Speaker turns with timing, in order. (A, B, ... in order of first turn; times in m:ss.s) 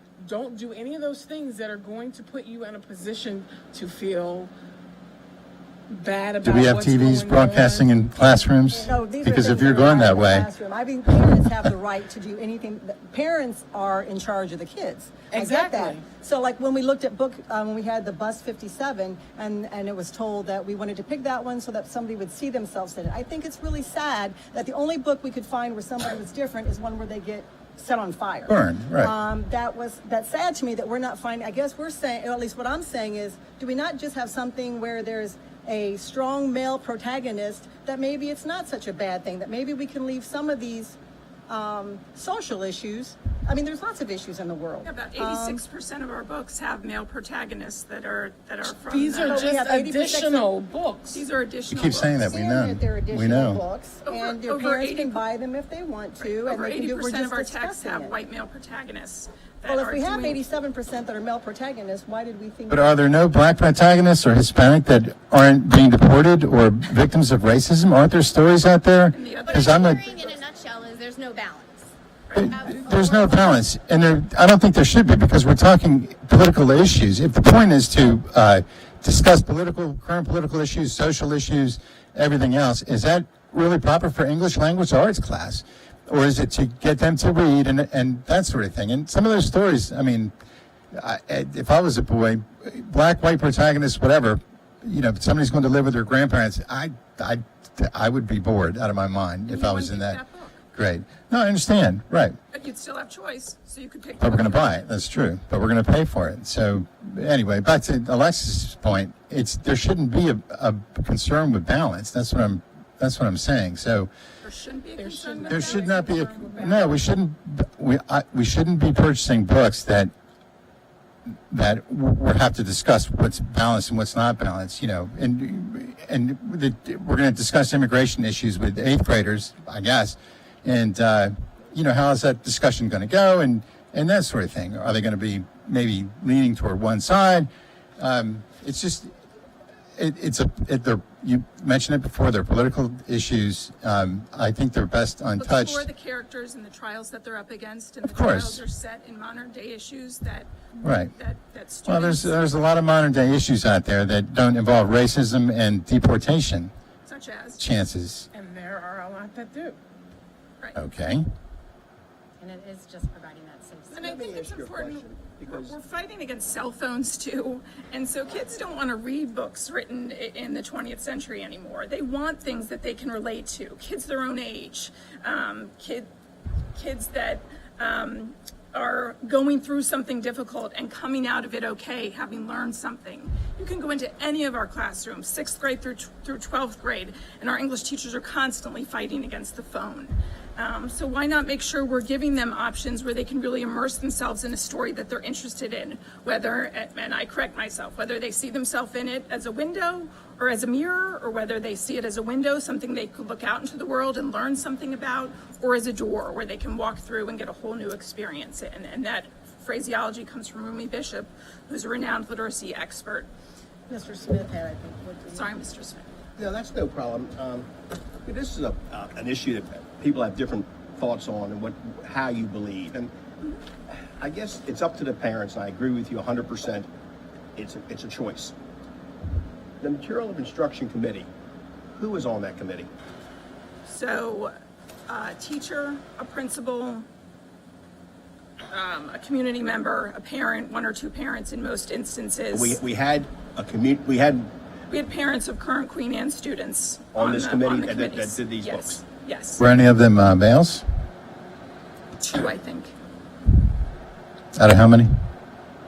0:00.2-0:04.5 A
0:05.9-0:07.9 A
0:06.4-0:10.5 B
0:08.7-0:41.0 C
0:15.3-0:16.0 A
0:28.5-0:29.1 B
0:41.5-0:45.6 C
0:44.8-0:49.6 D
0:48.9-0:51.3 A
0:49.2-0:50.5 C
0:51.1-0:52.2 D
0:51.7-0:53.6 B
0:52.2-0:58.2 C
0:54.0-0:55.2 D
0:56.2-1:00.4 D
0:59.7-1:03.0 C
1:02.7-1:10.0 B
1:09.1-1:10.1 D
1:09.4-1:11.9 E
1:12.3-1:30.3 B
1:12.5-1:13.5 E
1:30.9-1:40.2 B
1:39.5-1:40.6 D
1:40.8-1:42.4 B
1:42.5-1:44.8 D
1:44.2-1:54.1 B
1:54.4-1:56.1 D
1:55.0-1:57.0 A
1:55.5-2:00.1 B
2:01.5-2:19.1 B
2:20.0-2:25.9 B
2:25.4-2:32.3 D
2:28.0-2:28.6 B
2:30.8-2:31.1 B
2:31.9-2:36.7 B
2:37.0-2:37.6 D
2:37.6-2:38.3 B
2:38.3-2:39.8 A
2:40.8-2:41.2 B
2:42.4-2:44.4 E
2:43.9-2:56.1 D
2:44.1-2:45.8 F
2:56.7-3:33.3 D
3:33.9-3:35.5 C
3:35.3-3:36.1 D
3:36.4-3:37.7 F
3:38.3-3:43.1 F
3:44.2-3:46.9 F
3:47.6-3:48.5 F
3:49.8-3:51.3 F
3:52.0-3:52.9 F
3:53.9-3:54.6 D
3:55.1-3:57.1 D
3:58.7-4:02.8 D
4:02.5-4:04.5 F
4:04.9-4:09.6 D
4:07.1-4:09.0 F
4:09.6-4:10.8 B
4:12.2-4:12.9 D
4:14.6-4:15.1 B